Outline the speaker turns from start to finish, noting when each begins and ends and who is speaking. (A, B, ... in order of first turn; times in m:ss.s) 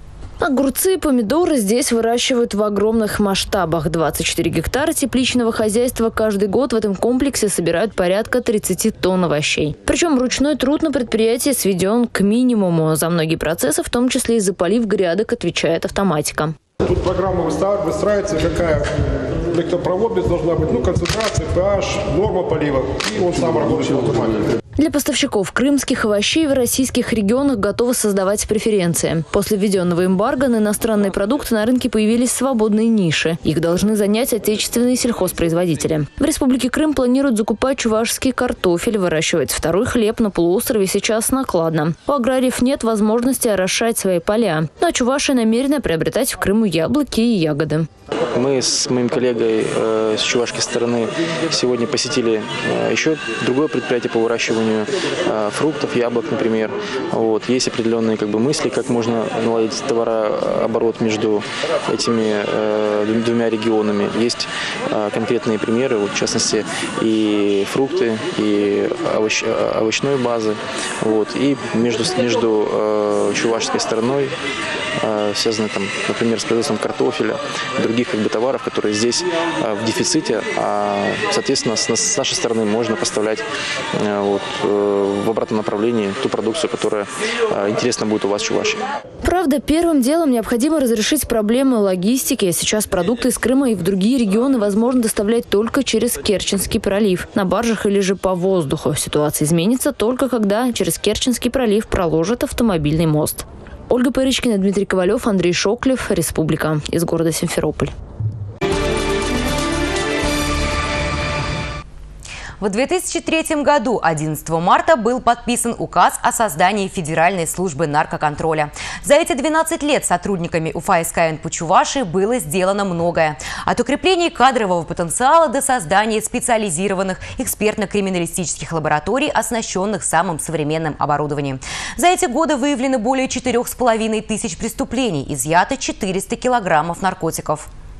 0:00.4-0:16.5 A
0:16.8-0:24.5 B
0:24.8-0:47.9 A
0:48.3-1:14.3 C
1:15.0-1:23.4 C
1:24.0-1:28.8 C
1:29.2-1:47.9 A
1:52.6-2:17.7 D